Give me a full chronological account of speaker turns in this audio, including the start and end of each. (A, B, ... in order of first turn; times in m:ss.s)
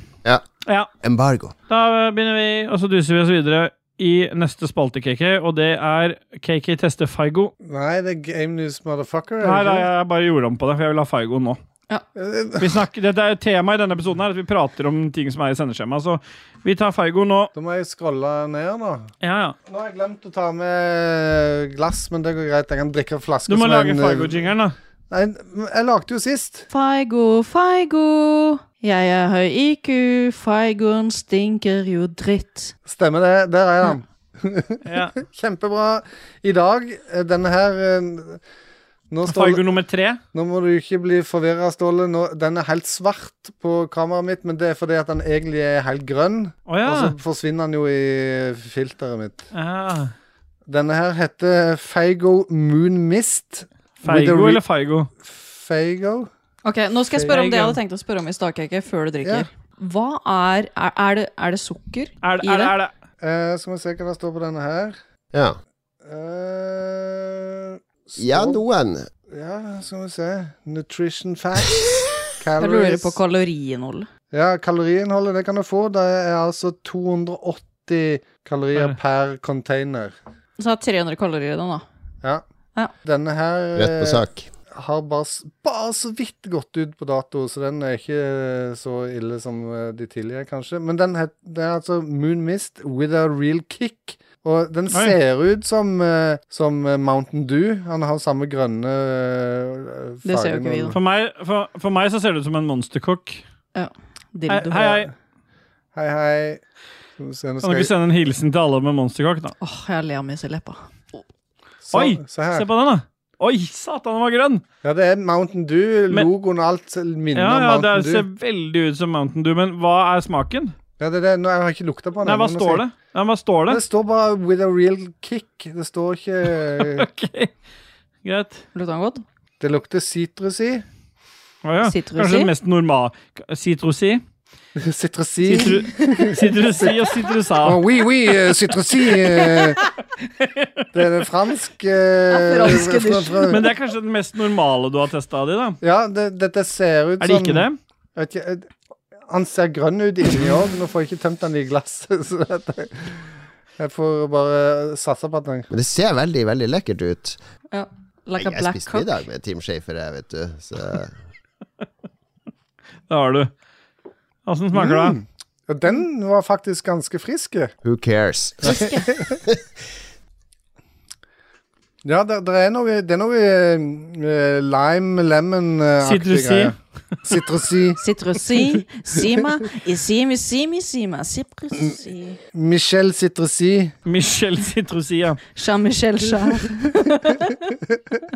0:01.0-0:01.5 A
0:01.7-0:07.5 B
0:07.6-0:09.9 C
0:09.4-0:11.6 B
0:12.1-0:12.8 C
0:12.6-0:17.5 B
0:17.5-0:19.1 C
0:19.2-0:19.6 B
0:19.7-0:24.5 C
0:23.5-0:24.7 B
0:25.1-0:26.7 C
0:26.7-0:32.7 D
0:32.9-0:38.4 C
0:34.8-0:35.2 B
0:39.1-0:39.6 C
0:39.3-0:40.2 B
0:40.3-0:49.4 C
0:46.7-0:47.1 B
0:49.5-0:50.1 B
0:50.7-0:54.6 C
0:54.0-0:55.1 B
0:55.2-0:56.3 C
0:56.6-1:02.7 D
0:57.3-0:57.8 B
1:02.2-1:02.9 B
1:03.2-1:05.0 C
1:05.3-1:05.6 A
1:06.0-1:08.6 C
1:08.2-1:09.1 A
1:09.3-1:13.2 C
1:12.6-1:14.1 D
1:14.3-1:20.1 C
1:20.6-1:21.8 D
1:23.0-1:41.0 C
1:23.8-1:24.5 A
1:40.2-1:40.9 D
1:40.9-1:43.4 B
1:43.7-1:45.0 D
1:44.5-1:45.1 B
1:45.9-1:46.6 C
1:47.2-1:47.9 C
1:47.6-1:49.5 B
1:49.6-1:51.2 D
1:51.8-1:52.7 C
1:51.9-1:54.6 B
1:54.8-1:58.2 C
1:57.3-2:00.7 B
2:01.0-2:02.8 C
2:02.2-2:03.8 B
2:03.7-2:07.1 C
2:06.6-2:07.5 B
2:08.2-2:08.6 B
2:08.7-2:09.2 D
2:09.6-2:10.8 C
2:11.6-2:14.2 B
2:11.8-2:12.5 D
2:14.8-2:17.0 C
2:15.4-2:17.8 B
2:17.6-2:19.8 C
2:20.4-2:20.8 B
2:20.9-2:23.6 C
2:22.3-2:23.6 D
2:23.5-2:25.8 B
2:25.8-2:28.7 C
2:27.2-2:27.8 B
2:29.3-2:33.2 C
2:33.8-2:35.7 C
2:35.7-2:37.4 A
2:37.7-2:39.1 D
2:38.4-2:41.2 A
2:43.1-2:43.5 B
2:44.4-2:45.2 B
2:44.7-2:47.7 C
2:47.8-2:49.5 A
2:48.6-2:49.4 C
2:52.0-2:58.0 C
2:56.0-2:56.7 B
2:58.0-3:02.4 D
3:02.5-3:03.9 C
3:04.0-3:05.4 B
3:05.6-3:07.6 D